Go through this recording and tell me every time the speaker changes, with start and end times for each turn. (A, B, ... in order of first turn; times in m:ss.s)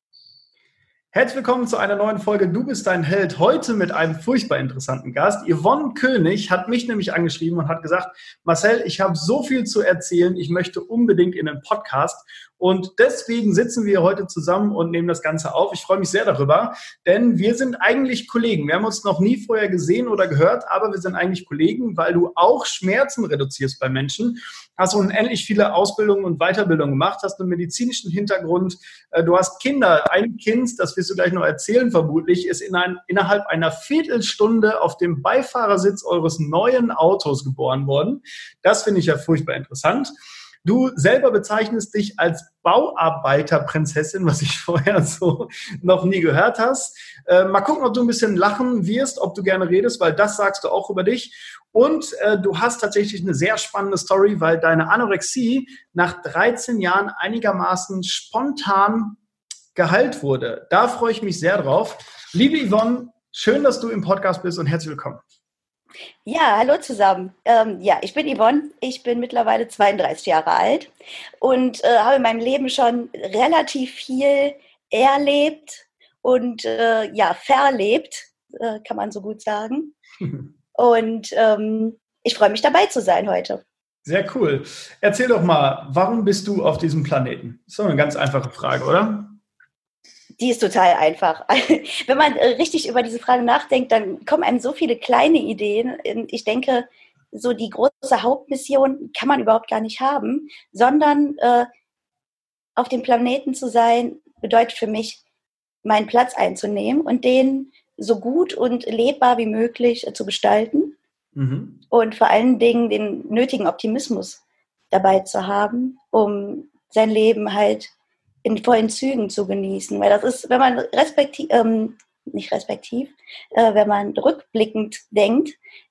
0:01.1-0:40.1 A
0:40.6-0:59.2 A
0:59.7-1:05.2 A
1:06.2-1:10.9 B
1:11.4-1:19.9 B
1:20.2-1:20.4 A
1:20.8-1:23.6 B
1:24.0-1:29.4 A
1:30.4-1:41.7 B
1:42.8-1:45.2 B
1:45.8-1:51.0 B
1:51.3-1:51.8 A
1:51.9-1:54.4 B
1:54.9-1:57.9 B
1:58.4-2:05.6 B